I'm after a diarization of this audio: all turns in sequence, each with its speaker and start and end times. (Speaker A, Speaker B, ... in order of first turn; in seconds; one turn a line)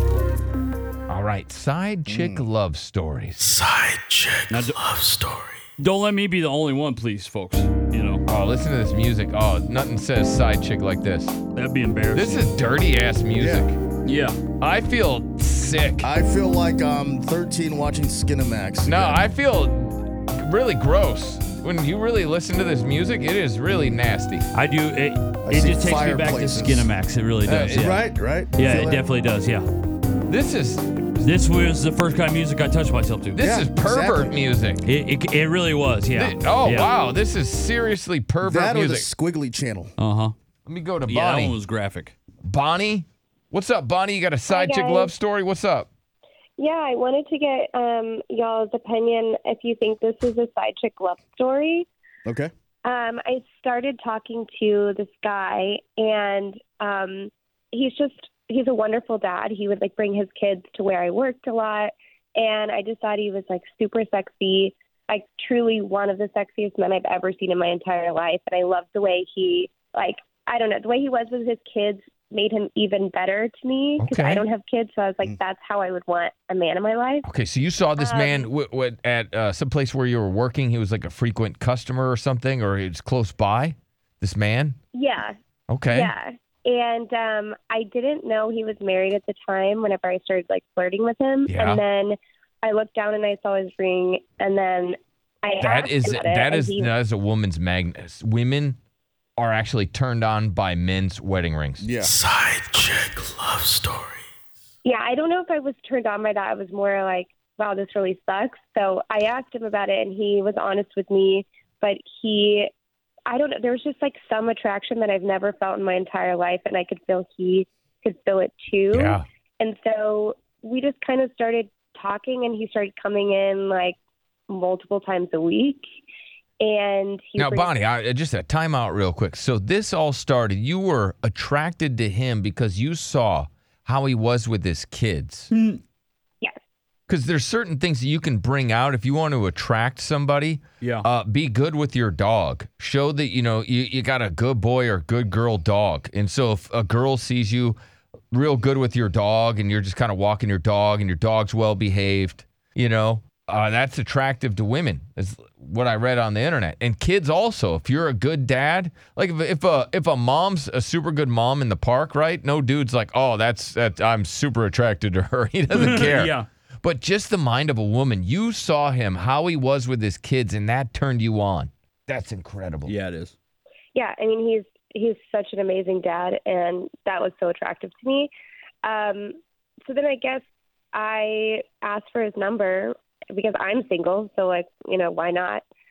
Speaker A: 1.1-3.5
Speaker B: 2.1-2.4
Speaker C: 3.4-5.6
Speaker D: 4.5-4.8
Speaker D: 5.8-8.2
Speaker A: 8.3-11.3
Speaker D: 11.5-12.5
Speaker A: 12.1-13.8
Speaker B: 13.4-13.7
Speaker D: 14.0-14.4
Speaker A: 14.6-16.1
Speaker B: 16.0-19.2
Speaker A: 18.9-24.5
Speaker D: 24.5-29.7
Speaker B: 25.4-26.9
Speaker A: 27.4-27.9
Speaker B: 27.7-29.1
Speaker A: 30.3-31.2
Speaker D: 31.2-33.4
Speaker A: 33.4-34.8
Speaker B: 33.4-34.4
Speaker D: 34.8-36.9
Speaker A: 36.1-39.1
Speaker B: 38.4-39.9
Speaker D: 40.0-40.3
Speaker A: 40.6-41.6
Speaker D: 41.0-42.1
Speaker A: 42.4-45.9
Speaker E: 44.5-45.1
Speaker E: 46.6-51.9
Speaker B: 52.2-52.5
Speaker E: 52.8-77.2
Speaker A: 74.0-74.4
Speaker A: 77.2-84.8
Speaker E: 78.0-78.5
Speaker E: 84.9-85.3
Speaker A: 85.7-86.1
Speaker E: 85.9-96.9
Speaker A: 91.5-91.8
Speaker A: 95.6-98.8
Speaker A: 99.4-101.8
Speaker B: 101.8-102.1
Speaker C: 102.0-104.2
Speaker E: 104.8-112.7
Speaker E: 113.3-124.0
Speaker A: 118.9-119.2
Speaker E: 124.5-125.8
Speaker E: 126.6-127.7
Speaker A: 127.4-135.5
Speaker D: 135.5-135.8
Speaker A: 137.1-147.8
Speaker D: 140.8-141.1
Speaker A: 148.3-172.9
Speaker D: 165.7-166.5
Speaker D: 172.8-173.3
Speaker E: 173.9-178.3
Speaker E: 178.8-180.4
Speaker E: 180.9-185.6